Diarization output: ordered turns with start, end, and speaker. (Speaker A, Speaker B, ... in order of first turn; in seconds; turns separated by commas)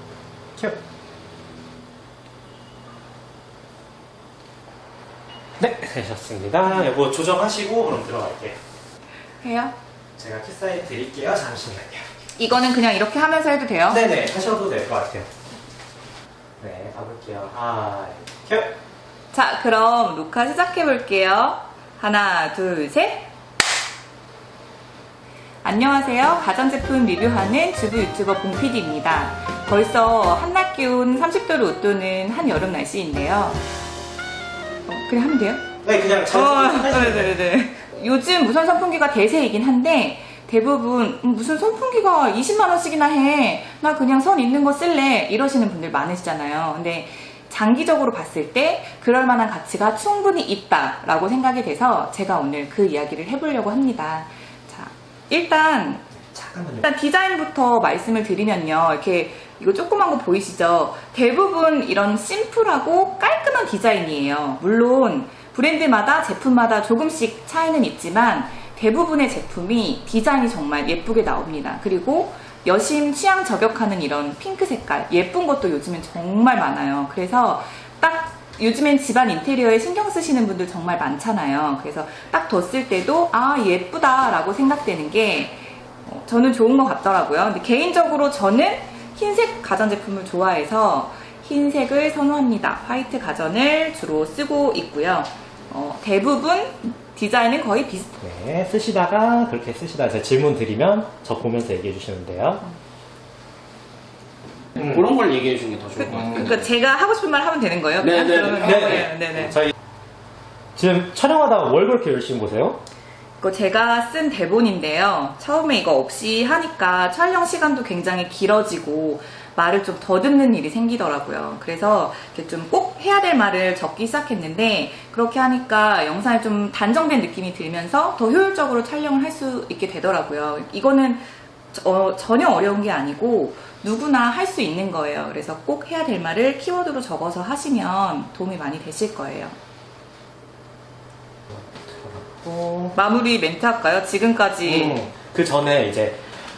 Speaker A: 5.6-8.6, Speaker B: 9.4-9.7, Speaker A: 10.2-12.1, Speaker B: 12.3-14.0, Speaker A: 13.9-15.3, Speaker A: 16.6-18.7, Speaker B: 19.3-23.3, Speaker B: 25.6-33.6, Speaker B: 34.9-35.7, Speaker A: 35.8-37.4, Speaker B: 36.3-56.1, Speaker A: 56.2-56.9, Speaker B: 56.8-98.2, Speaker A: 98.2-102.7, Speaker C: 104.7-106.6, Speaker B: 106.0-109.7, Speaker C: 108.0-109.1, Speaker A: 108.9-109.7, Speaker A: 110.8-112.8, Speaker B: 113.4-139.6, Speaker A: 141.5-142.9, Speaker B: 142.9-145.0, Speaker A: 144.6-146.2